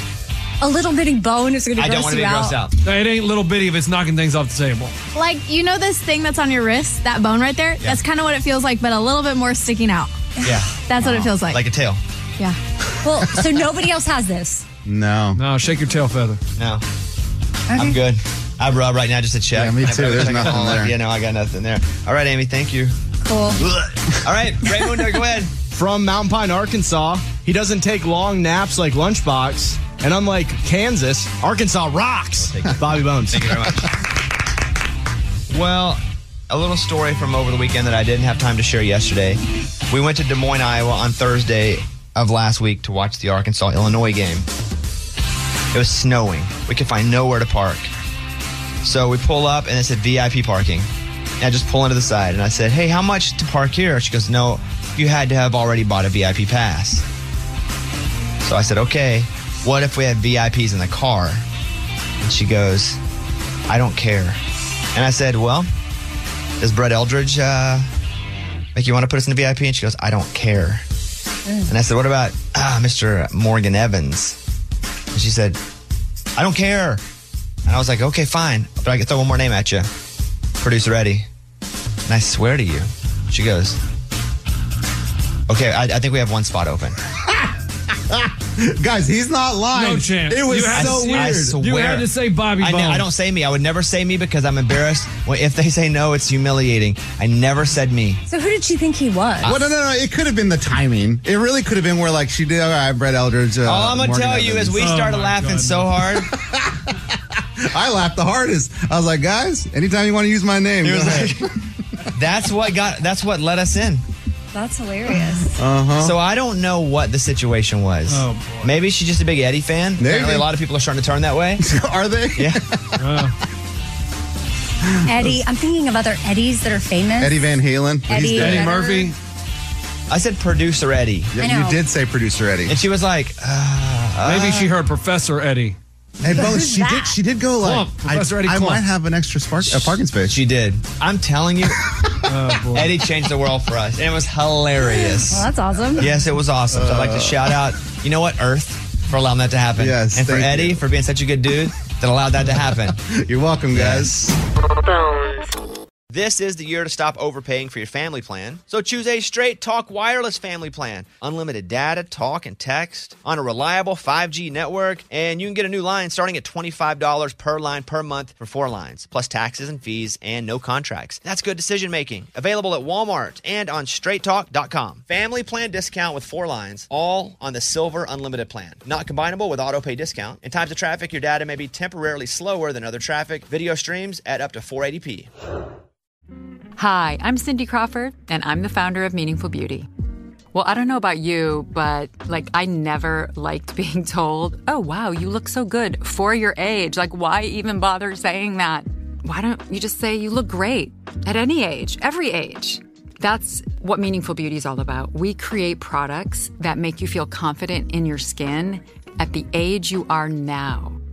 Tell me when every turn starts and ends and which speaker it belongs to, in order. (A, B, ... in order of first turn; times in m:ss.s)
0:00.6-0:02.6 A
0:01.8-0:02.7 B
0:02.8-0:04.9 C
0:05.1-0:10.1 D
0:10.4-0:12.0 B
0:10.9-0:11.6 D
0:13.0-0:14.6 A
0:14.8-0:15.4 E
0:15.3-0:16.4 C
0:16.6-0:16.8 B
0:17.7-0:22.9 B
0:19.5-0:20.9 E
0:23.2-0:23.6 A
0:24.2-0:25.5 B
0:25.7-0:33.6 F
0:32.4-0:34.0 B
0:35.5-0:44.5 B
0:45.7-0:47.9 B
0:48.8-0:50.9 B
0:51.4-0:57.0 B
0:58.4-1:01.4 B
1:02.2-1:03.0 B
1:03.7-1:04.4 B
1:04.9-1:05.7 B
1:06.6-1:07.9 B
1:08.7-1:10.8 B
1:11.7-1:14.4 B
1:15.1-1:15.6 B
1:16.4-1:17.0 B
1:17.6-1:19.9 B
1:20.6-1:21.3 B
1:22.0-1:23.8 B
1:25.5-1:27.0 B
1:28.1-1:31.5 E
1:29.7-1:33.1 C
1:30.7-1:38.2 B
1:38.3-1:39.6 A
1:39.4-1:39.7 B
1:39.4-1:44.9 E
1:43.6-1:46.3 B
1:44.7-1:45.9 C
1:46.4-1:46.8 E
1:47.6-1:51.4 E
1:50.8-1:51.5 B
1:52.1-1:54.0 B
1:54.5-1:55.6 A
1:55.6-1:56.1 E
1:56.0-2:01.6 B
1:58.1-1:58.7 C
2:00.0-2:00.5 E
2:01.6-2:03.0 E
2:02.4-2:02.6 B
2:03.0-2:03.4 C
2:05.0-2:07.4 A
2:07.2-2:08.8 E
2:08.1-2:09.1 A
2:08.3-2:09.2 C
2:10.1-2:11.3 B
2:11.3-2:12.8 E
2:11.4-2:11.8 A
2:12.7-2:14.7 B
2:14.2-2:15.8 C
2:16.2-2:20.4 E
2:16.4-2:17.1 A
2:17.6-2:18.8 C
2:19.7-2:21.8 B
2:22.3-2:23.0 C
2:22.7-2:33.0 B
2:25.0-2:26.1 A
2:26.7-2:27.6 E
2:29.8-2:30.8 E
2:33.0-2:34.1 E
2:33.7-2:34.4 B
2:36.1-3:05.3 B
3:06.8-3:09.9 G
3:10.5-3:31.0 G